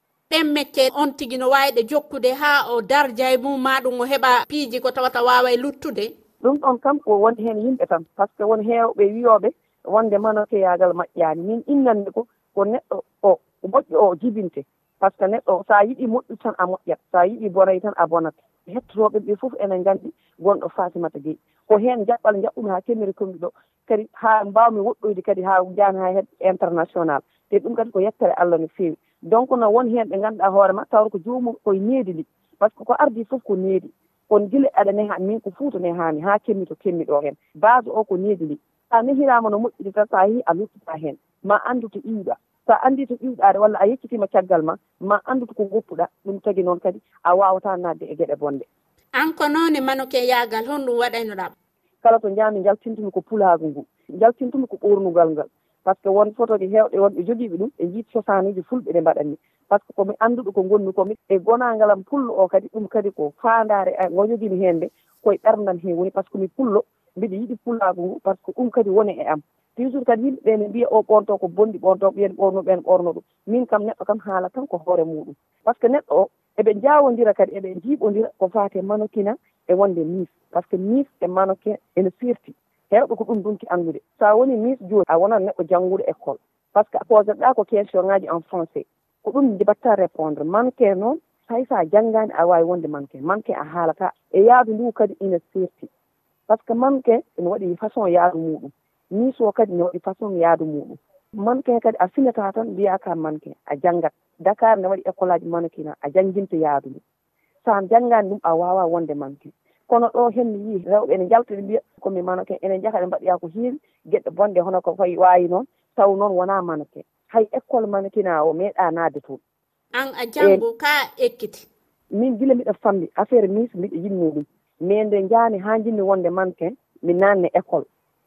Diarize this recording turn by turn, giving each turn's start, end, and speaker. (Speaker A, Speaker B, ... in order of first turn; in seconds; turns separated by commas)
Speaker A: 0.3-6.1, Speaker B: 6.4-48.6, Speaker A: 49.1-51.5, Speaker B: 52.0-95.9, Speaker B: 96.5-107.0, Speaker B: 107.6-119.4, Speaker A: 119.9-121.7, Speaker B: 122.1-127.8